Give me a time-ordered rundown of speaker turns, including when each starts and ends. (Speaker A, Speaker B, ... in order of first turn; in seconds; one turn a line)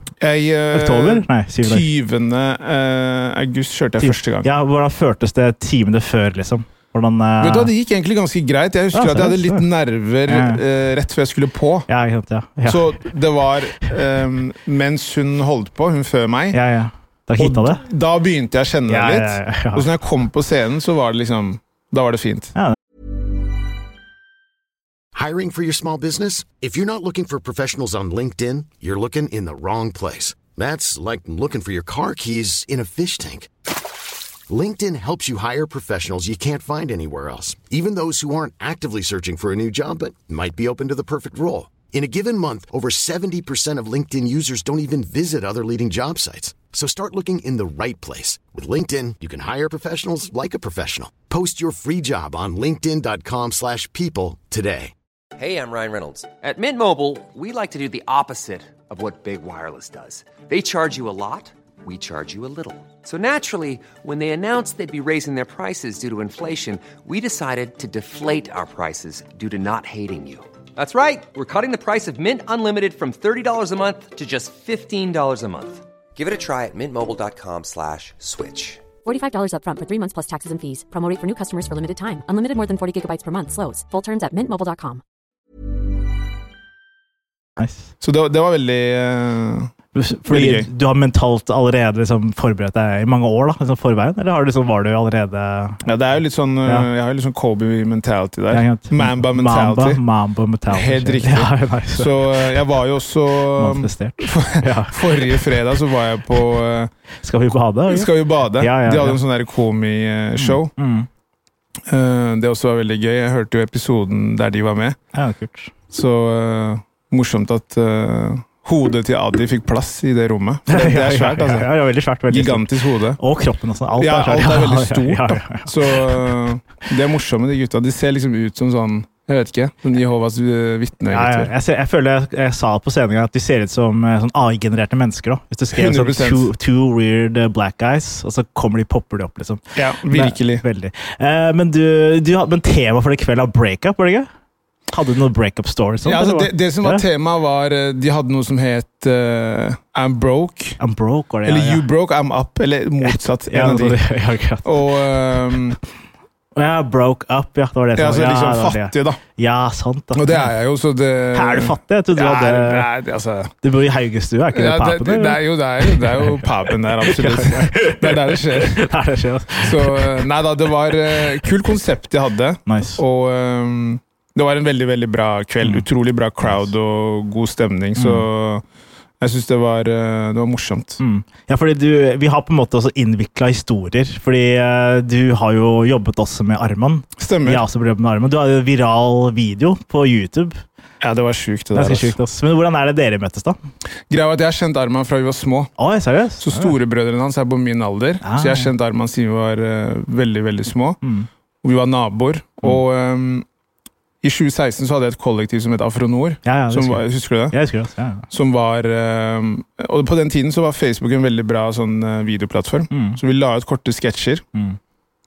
Speaker A: 0.2-4.5
Speaker B: 0.7-1.8
Speaker B: 4.0-7.7
Speaker A: 7.4-11.9
Speaker B: 8.9-9.7
Speaker B: 10.3-10.6
Speaker B: 11.9-13.0
Speaker A: 12.7-16.6
Speaker B: 16.5-17.8
Speaker A: 17.4-22.6
Speaker B: 18.9-19.9
Speaker C: 25.1-33.5
Speaker C: 34.5-54.9
Speaker D: 55.4-78.8
Speaker E: 79.0-85.0
Speaker B: 87.6-87.9
Speaker A: 88.0-89.7
Speaker B: 89.9-95.8
Speaker A: 90.3-90.7
Speaker A: 95.8-100.0
Speaker B: 98.5-102.4
Speaker A: 100.7-106.9
Speaker B: 103.5-105.5
Speaker B: 107.2-109.2
Speaker A: 107.9-110.7
Speaker B: 110.4-111.1
Speaker A: 111.9-115.0
Speaker B: 115.1-115.7
Speaker A: 115.9-121.7
Speaker B: 120.7-126.2
Speaker A: 122.3-123.2
Speaker A: 124.0-131.5
Speaker B: 131.1-144.3
Speaker A: 135.7-136.5
Speaker A: 139.8-140.6
Speaker B: 144.9-147.0
Speaker A: 146.0-150.8
Speaker B: 150.8-151.8
Speaker A: 151.4-154.0
Speaker B: 153.0-154.8
Speaker A: 154.7-155.8
Speaker B: 156.6-160.5
Speaker A: 158.0-159.2
Speaker A: 160.1-163.5
Speaker B: 161.3-162.9
Speaker B: 163.6-170.2
Speaker A: 164.5-168.9
Speaker A: 169.6-178.6
Speaker B: 172.7-173.0
Speaker B: 178.0-178.3
Speaker A: 179.2-181.0
Speaker B: 181.0-190.6
Speaker A: 187.2-187.6
Speaker A: 191.0-192.2
Speaker B: 191.7-193.6
Speaker A: 194.1-195.7
Speaker B: 195.8-196.7
Speaker A: 196.4-201.0
Speaker B: 198.2-198.7
Speaker B: 201.0-201.3
Speaker A: 201.6-203.5
Speaker A: 204.2-207.6
Speaker B: 206.4-208.3
Speaker A: 208.3-214.4
Speaker B: 212.9-213.2